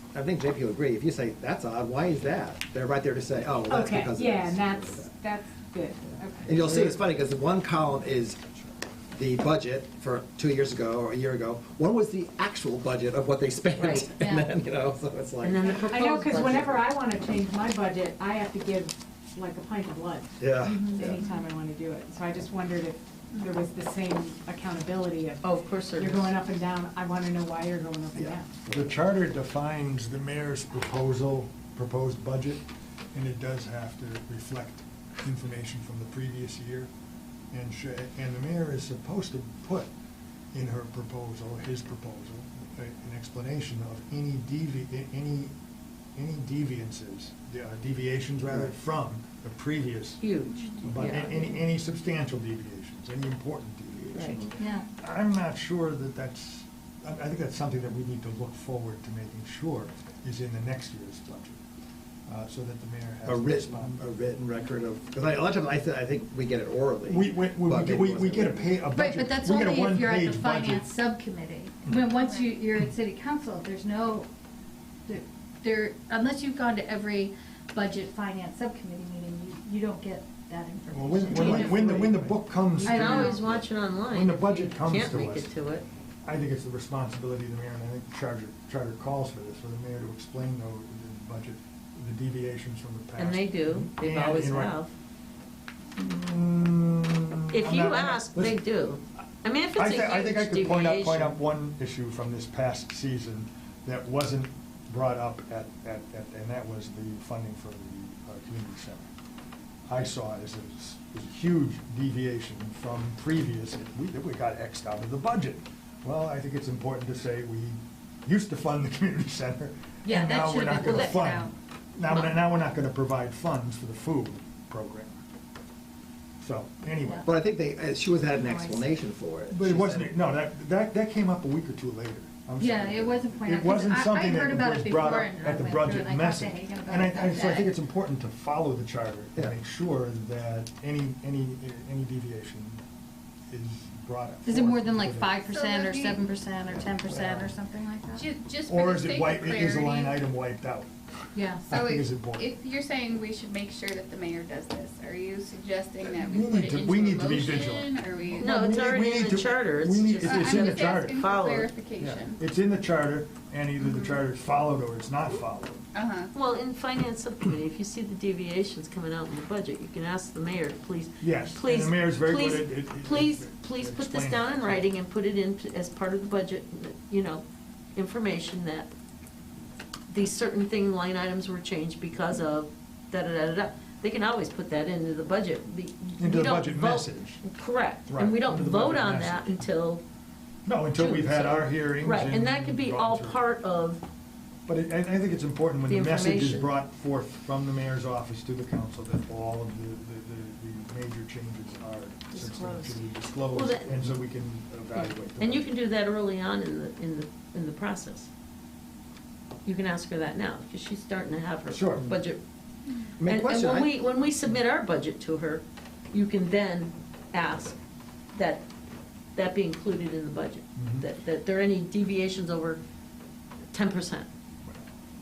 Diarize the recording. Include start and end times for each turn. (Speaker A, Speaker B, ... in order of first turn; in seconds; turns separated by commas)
Speaker A: 0.1-5.2, Speaker B: 3.6-6.6, Speaker A: 6.5-8.4, Speaker C: 6.6-7.1, Speaker A: 9.1-16.8, Speaker D: 13.8-14.1, Speaker E: 14.2-14.5, Speaker D: 15.4-16.8, Speaker B: 15.9-28.6, Speaker A: 20.4-21.3, Speaker E: 20.6-21.0, Speaker D: 25.4-26.4, Speaker A: 28.1-28.9, Speaker C: 28.7-36.9, Speaker C: 37.5-39.9, Speaker C: 40.5-45.5, Speaker C: 46.1-50.2, Speaker D: 50.2-51.6, Speaker C: 50.8-61.6, Speaker D: 54.1-54.5, Speaker E: 54.6-54.9, Speaker C: 62.3-64.0, Speaker A: 63.2-68.8, Speaker C: 67.0-70.9, Speaker E: 68.9-74.3, Speaker F: 72.2-72.5, Speaker E: 75.1-82.2, Speaker C: 80.9-85.5, Speaker B: 81.4-81.8, Speaker D: 81.4-81.9, Speaker D: 82.7-85.9, Speaker E: 82.8-83.4, Speaker C: 86.2-94.8, Speaker D: 93.2-94.9, Speaker C: 96.0-98.6, Speaker D: 97.5-101.4, Speaker C: 99.8-109.1, Speaker C: 109.9-125.2, Speaker E: 120.0-121.5, Speaker D: 120.8-121.2, Speaker C: 126.4-127.3, Speaker A: 127.2-130.2, Speaker E: 128.3-128.9, Speaker C: 129.5-142.8, Speaker E: 132.6-137.7, Speaker C: 143.5-145.4, Speaker E: 144.4-148.3, Speaker F: 145.4-146.2, Speaker C: 146.9-147.4, Speaker F: 148.2-150.2, Speaker C: 148.7-150.9, Speaker E: 151.3-151.7, Speaker C: 151.7-152.5, Speaker F: 151.7-158.8, Speaker C: 156.2-161.2, Speaker D: 158.4-161.7, Speaker F: 160.2-162.4, Speaker C: 162.0-165.8, Speaker F: 163.8-164.2, Speaker F: 165.9-166.3, Speaker D: 166.3-177.4, Speaker C: 171.2-174.8, Speaker D: 178.0-178.9, Speaker D: 180.1-190.0, Speaker C: 186.2-187.4, Speaker C: 188.1-189.6, Speaker C: 190.7-193.4, Speaker D: 190.9-194.0, Speaker C: 194.7-205.7, Speaker D: 195.9-196.7, Speaker D: 202.3-204.1, Speaker D: 204.9-208.3, Speaker D: 209.7-212.4, Speaker A: 211.7-212.1, Speaker A: 213.2-213.9, Speaker D: 213.2-217.8, Speaker D: 218.3-218.7, Speaker D: 219.3-222.8, Speaker C: 220.8-221.1, Speaker D: 223.7-224.3